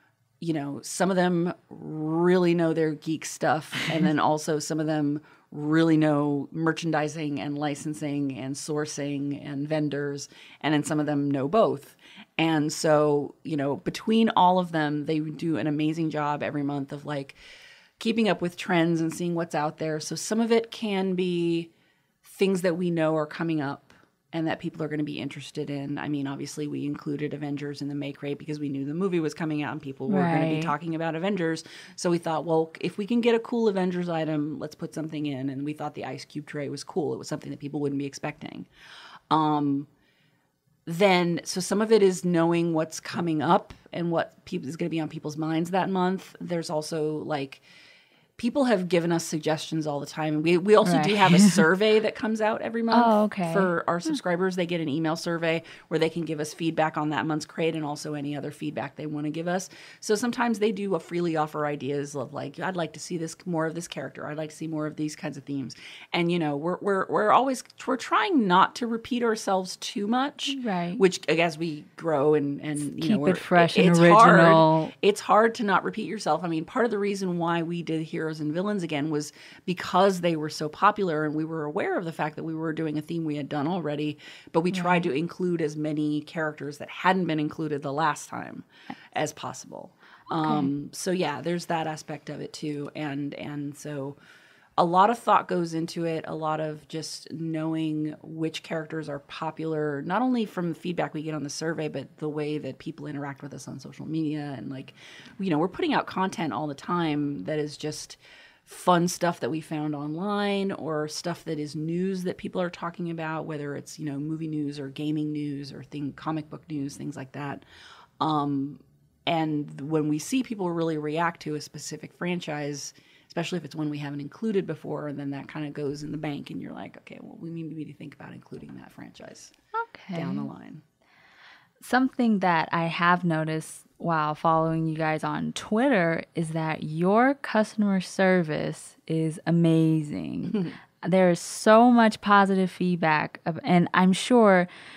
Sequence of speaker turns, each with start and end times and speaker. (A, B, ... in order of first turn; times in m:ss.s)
0:00.4-0:17.4 A
0:18.0-0:21.7 A
0:22.2-0:38.7 A
0:30.1-0:30.7 B
0:39.3-0:39.9 A
0:40.8-0:47.6 A
0:48.4-1:34.2 A
0:50.8-0:51.6 B
0:52.9-0:53.7 B
1:10.5-1:11.0 B
1:12.9-1:14.9 B
1:24.7-1:25.1 B
1:30.4-1:30.7 B
1:34.8-1:57.6 A
1:58.2-2:09.5 A
2:09.7-2:10.5 B
2:10.1-2:10.8 A
2:11.8-2:24.7 B